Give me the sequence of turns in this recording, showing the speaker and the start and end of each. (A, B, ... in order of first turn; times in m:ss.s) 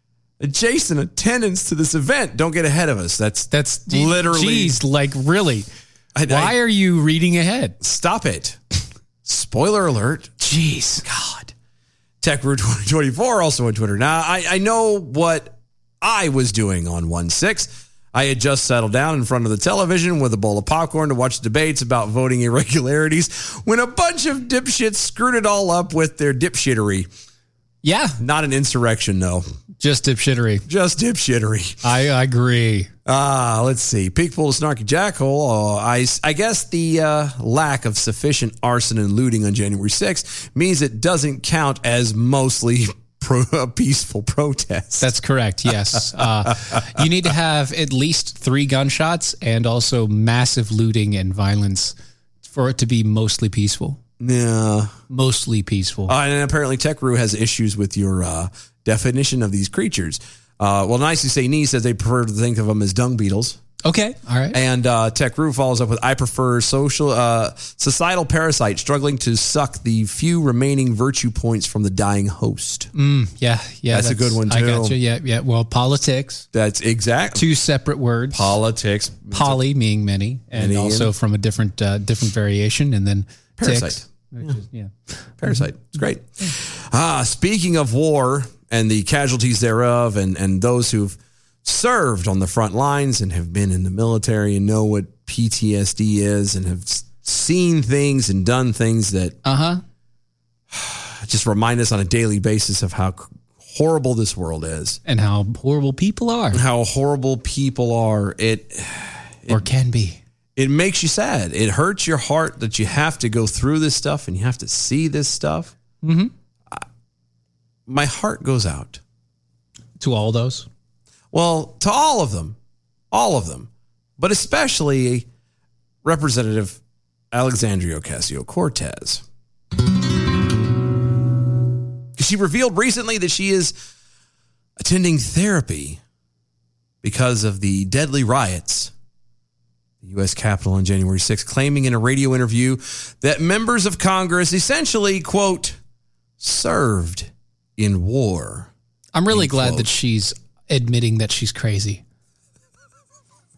0:00.4-0:04.8 A
0:03.5-0:05.7 B
0:06.1-0:06.6 A
0:06.2-0:07.8 B
0:07.8-0:08.6 A
0:09.2-0:10.4 A
0:10.4-0:11.0 B
0:11.0-0:11.5 A
0:12.2-0:27.1 A
0:27.8-0:28.2 B
0:28.2-0:29.4 A
0:29.8-0:30.6 B
0:30.7-0:31.8 A
0:31.8-0:32.9 B
0:33.0-0:45.1 A
0:45.0-0:54.0 B
0:45.7-0:46.8 A
0:54.2-0:54.9 A
0:55.1-0:56.2 B
0:56.1-1:03.6 A
1:03.8-1:04.6 B
1:04.5-1:12.9 A
1:12.9-1:16.5 B
1:13.9-1:15.0 A
1:16.5-1:17.5 A
1:17.3-1:18.5 B
1:18.3-1:19.6 A
1:19.3-1:26.0 B
1:20.5-1:21.1 A
1:23.6-1:24.6 A
1:25.4-1:39.4 A
1:39.4-1:39.8 B
1:40.7-1:45.0 A
1:45.0-1:46.6 B
1:46.5-1:49.6 A
1:49.5-1:50.2 B
1:50.6-1:55.7 A
1:56.0-1:56.3 B
1:57.9-1:59.0 A
2:00.0-2:00.7 B
2:01.3-2:02.6 A
2:03.1-2:05.3 A
2:06.0-2:06.8 A
2:07.3-2:09.2 A
2:12.2-2:13.7 A
2:14.8-2:16.0 A
2:17.0-2:18.9 A
2:20.0-2:25.8 A
2:26.4-2:28.7 A
2:29.1-2:32.0 B
2:29.3-2:29.9 A